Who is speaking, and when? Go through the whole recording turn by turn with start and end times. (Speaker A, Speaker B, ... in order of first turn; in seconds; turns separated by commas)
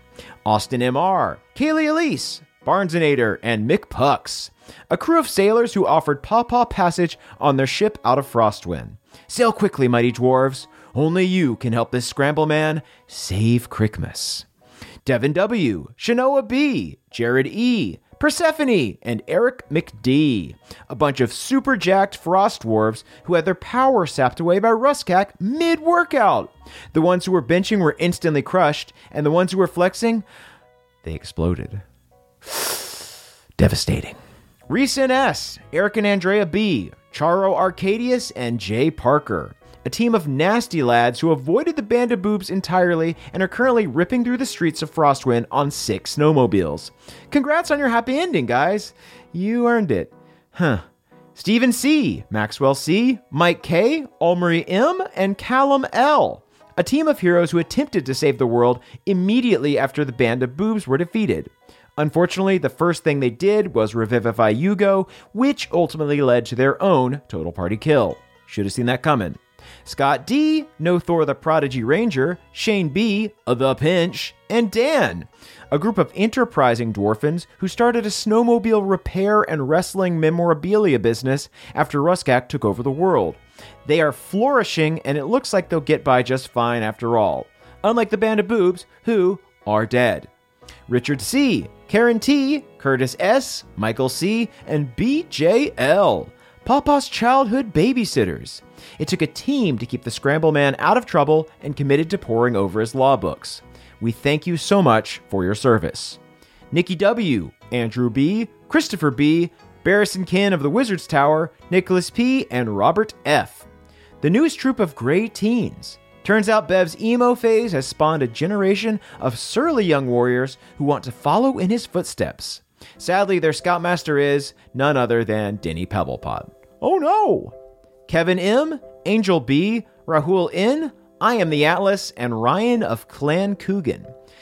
Speaker A: 0.5-14.4, Speaker A: 15.1-30.2, Speaker A: 31.0-31.8, Speaker A: 32.5-32.9, Speaker A: 33.6-34.2, Speaker A: 34.7-50.8, Speaker A: 51.4-90.3, Speaker A: 90.9-106.2, Speaker A: 106.7-113.7, Speaker A: 114.2-127.5, Speaker A: 128.1-134.1